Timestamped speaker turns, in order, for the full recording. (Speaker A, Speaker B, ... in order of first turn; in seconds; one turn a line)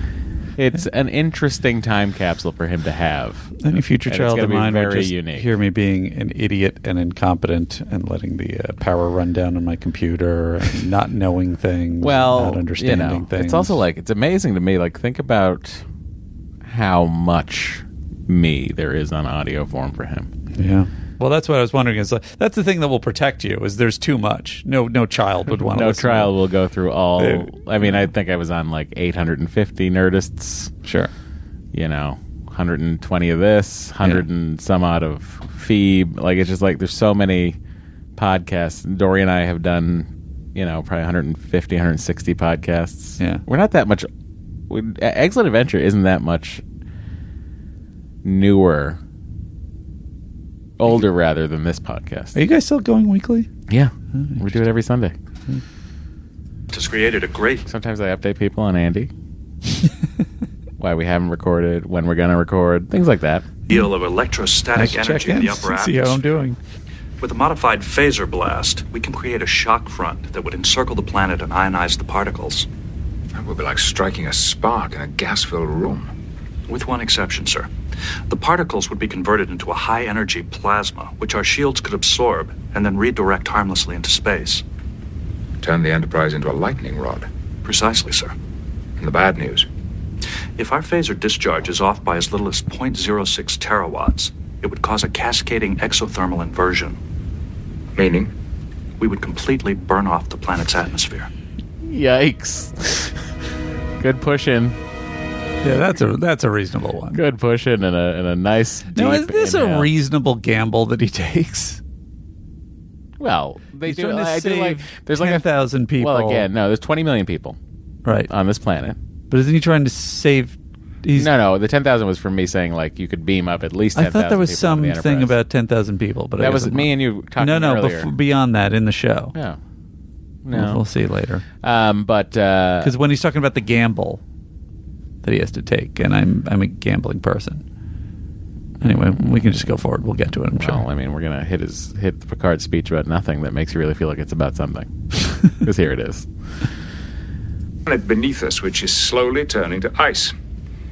Speaker A: 0.6-5.5
Speaker B: 3.6-13.8
Speaker A: 12.0-15.8
Speaker A: 16.6-20.3
Speaker B: 20.5-26.3
Speaker A: 25.6-30.7
Speaker B: 27.2-28.0
Speaker B: 30.8-31.1
Speaker A: 31.7-37.6
Speaker A: 38.1-44.1
Speaker B: 43.2-43.4
Speaker A: 44.7-46.6
Speaker A: 48.2-49.0
Speaker A: 50.8-52.4
Speaker B: 52.3-53.5
Speaker A: 53.7-55.1
Speaker B: 54.1-54.4
Speaker C: 56.7-57.7
Speaker A: 57.6-59.1
Speaker A: 60.8-63.6
Speaker C: 63.7-66.4
Speaker B: 64.7-66.6
Speaker C: 67.2-72.7
Speaker D: 73.3-76.1
Speaker C: 76.7-77.7
Speaker C: 78.3-84.6
Speaker D: 85.6-87.3
Speaker C: 87.6-88.3
Speaker D: 89.0-89.7
Speaker C: 90.6-97.0
Speaker D: 98.0-98.3
Speaker C: 99.0-101.3
Speaker A: 101.8-103.2
Speaker A: 104.0-104.8
Speaker B: 105.6-107.2
Speaker A: 107.1-109.9
Speaker B: 108.9-111.8
Speaker A: 113.2-117.6
Speaker B: 113.8-116.5
Speaker B: 118.0-118.3
Speaker A: 118.1-119.0
Speaker B: 119.3-121.3
Speaker A: 121.2-125.3
Speaker B: 123.9-129.3
Speaker A: 126.4-128.1
Speaker A: 129.3-129.6
Speaker A: 130.4-130.8
Speaker B: 130.5-131.4
Speaker A: 131.6-132.9
Speaker B: 132.8-134.2
Speaker B: 135.2-137.6
Speaker B: 138.8-140.8
Speaker A: 140.6-146.3
Speaker D: 147.8-150.3